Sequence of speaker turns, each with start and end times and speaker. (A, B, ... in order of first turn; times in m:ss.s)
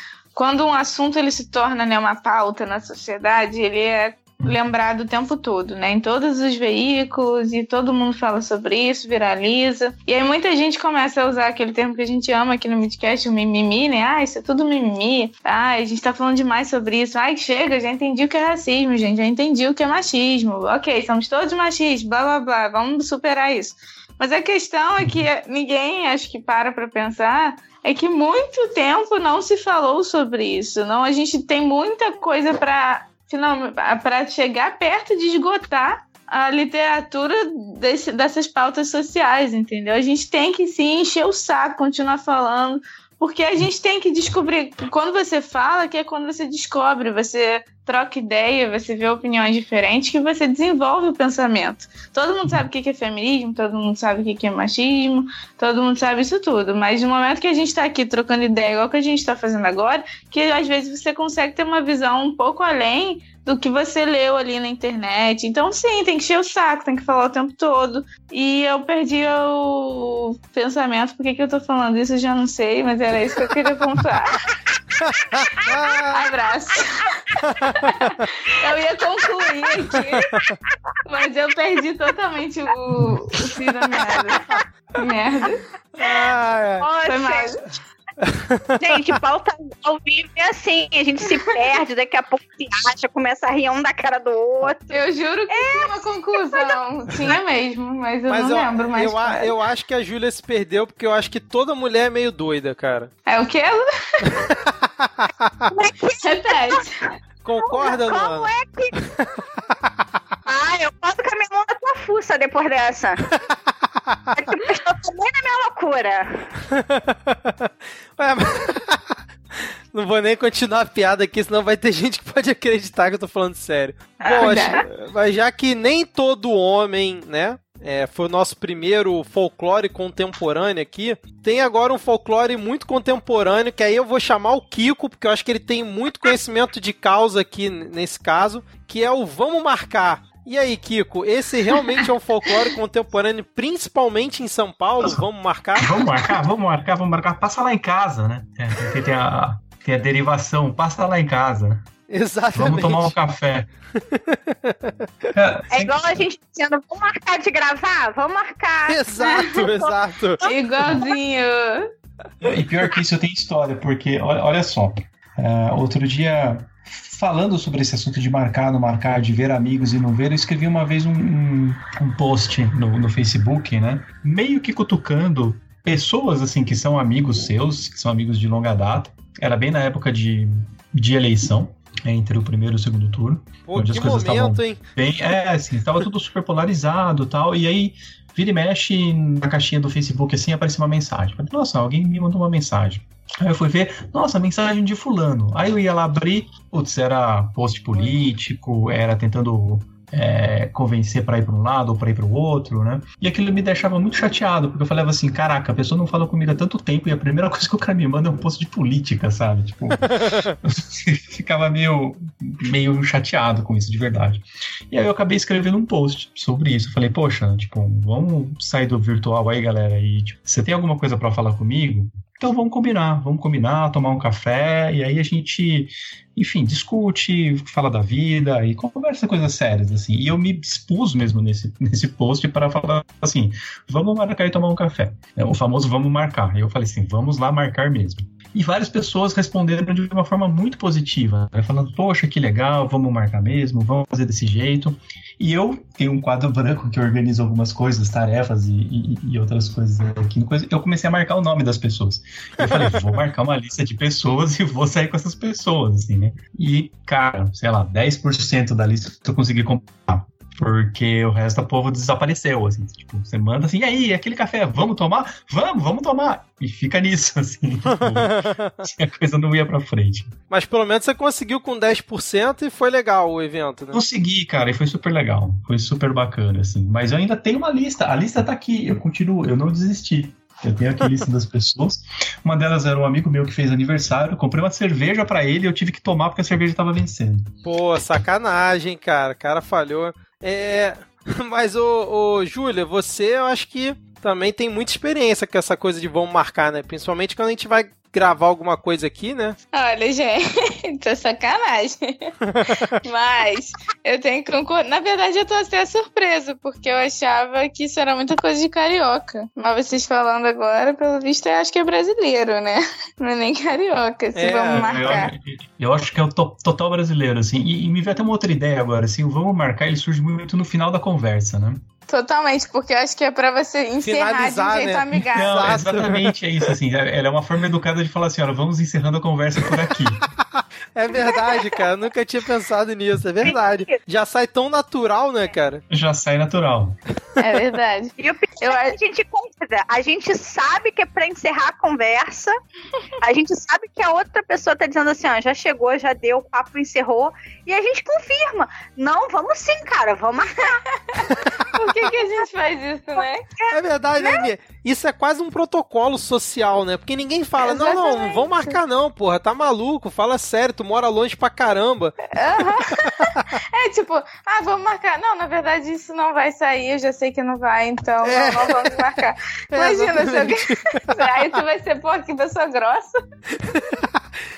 0:00.3-1:14.4 A
1:15.0-1:16.2 B
1:15.6-1:16.0 C
1:16.1-1:20.4 A
1:17.4-1:17.9 B
1:21.0-1:25.6 A
1:24.1-1:24.6 C
1:25.9-1:26.8 B
1:26.8-1:27.6 C
1:27.0-1:27.7 A
1:28.2-1:29.0 B
1:28.8-1:35.0 C
1:34.9-1:39.5 A
1:35.5-1:36.8 C
1:38.3-1:43.1 B
1:43.3-1:43.8 A
1:44.2-1:45.7 B
1:45.7-1:46.8 C
1:46.2-1:47.1 A
1:47.4-1:49.3 B
1:47.6-1:49.0 C
1:50.5-1:53.2 C
1:54.3-1:56.5 C
1:56.7-2:26.1 B
2:04.2-2:04.8 C
2:04.4-2:04.8 A
2:25.8-2:31.8 D
2:32.1-2:33.1 B
2:32.5-2:33.7 D
2:34.1-2:35.3 B
2:35.3-2:36.2 D
2:35.7-2:39.0 C
2:38.9-2:40.4 B
2:39.2-2:39.6 A
2:39.6-2:41.0 C
2:40.4-2:41.9 A
2:42.4-4:30.3 D
3:03.7-3:04.8 B
4:27.9-4:28.8 B
4:30.5-4:34.0 B
4:33.9-4:47.5 D
4:47.6-4:59.6 B
4:59.7-5:02.4 A
5:02.5-5:02.9 B
5:03.0-5:15.3 A
5:14.3-5:15.3 B
5:14.7-5:21.8 D
5:22.1-5:25.8 A
5:24.0-5:26.3 B
5:25.3-5:30.2 D
5:30.9-5:35.8 B
5:33.4-5:33.9 C
5:35.9-5:37.0 D
5:37.4-5:38.9 A
5:38.2-5:42.6 C
5:43.2-5:51.6 C
5:51.7-5:53.4 A
5:53.6-5:54.5 C
5:53.7-6:02.3 B
5:57.6-5:58.7 A
6:02.3-6:13.2 A
6:08.2-6:09.0 B
6:09.7-6:11.4 B
6:13.6-6:14.2 B